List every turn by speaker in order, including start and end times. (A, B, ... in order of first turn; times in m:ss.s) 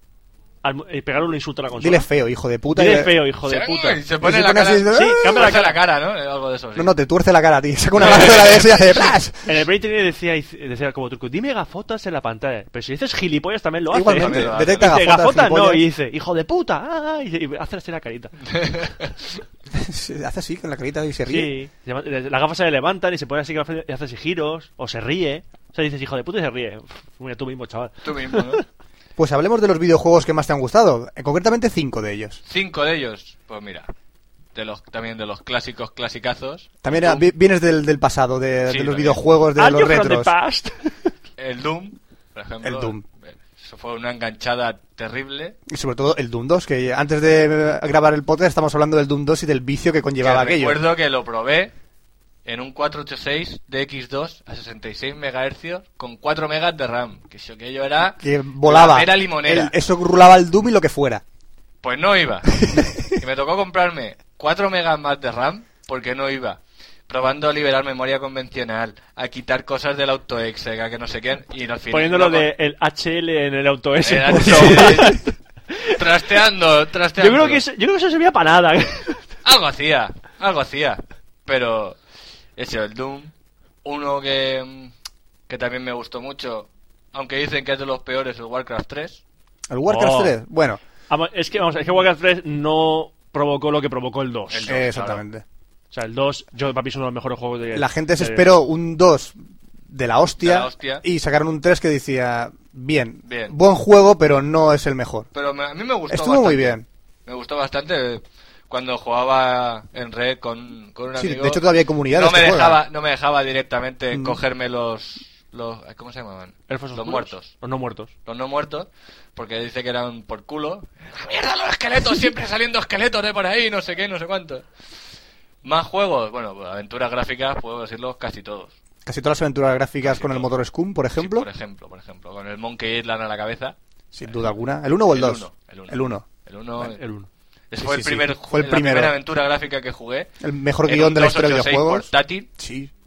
0:00.6-0:02.1 A
0:01.8-0:03.2 B
0:02.7-0:04.0 A
0:03.4-0:06.9 C
0:04.2-0:05.5 B
0:04.9-0:05.8 A
0:06.7-0:09.6 B
0:08.0-0:09.0 C
0:09.4-0:18.4 A
0:13.9-0:15.8 B
0:14.1-0:14.9 C
0:18.5-0:19.1 C
0:19.7-0:21.5 B
0:21.3-0:28.6 A
0:28.0-0:28.6 C
0:29.2-0:32.4 B
0:32.5-0:33.9 C
0:34.5-0:37.2 C
0:36.8-0:40.3 B
0:38.6-0:39.2 C
0:39.6-0:41.1 A
0:41.4-0:45.6 C
0:42.6-0:43.0 B
0:45.7-0:50.8 B
0:50.2-0:51.7 C
0:52.4-0:59.7 C
0:58.1-1:01.2 B
1:01.8-1:12.5 C
1:02.6-1:03.1 B
1:11.9-1:16.0 A
1:14.0-1:15.3 C
1:14.6-1:15.1 B
1:15.9-1:17.6 C
1:17.2-1:19.3 A
1:19.4-1:22.0 C
1:22.6-1:23.3 C
1:23.8-1:24.9 C
1:25.5-1:29.2 C
1:29.7-1:30.8 B
1:29.9-1:30.4 A
1:31.1-1:34.7 A
1:34.5-1:35.2 C
1:34.7-1:35.4 B
1:35.9-1:38.5 A
1:37.7-1:39.4 B
1:39.9-1:45.3 B
1:40.4-1:41.0 C
1:43.3-1:43.6 C
1:45.3-1:57.5 C
1:46.1-1:46.8 B
1:51.2-1:52.8 B
1:56.7-1:58.1 A
1:58.2-2:04.6 C
2:05.6-2:08.7 C
2:09.0-2:11.5 B
2:10.0-2:10.5 C
2:11.2-2:14.4 C
2:14.1-2:16.2 B
2:15.1-2:17.0 C
2:16.8-2:17.3 A
2:17.7-2:20.3 C
2:17.8-2:19.1 B
2:20.4-2:22.9 B
2:20.8-2:22.5 C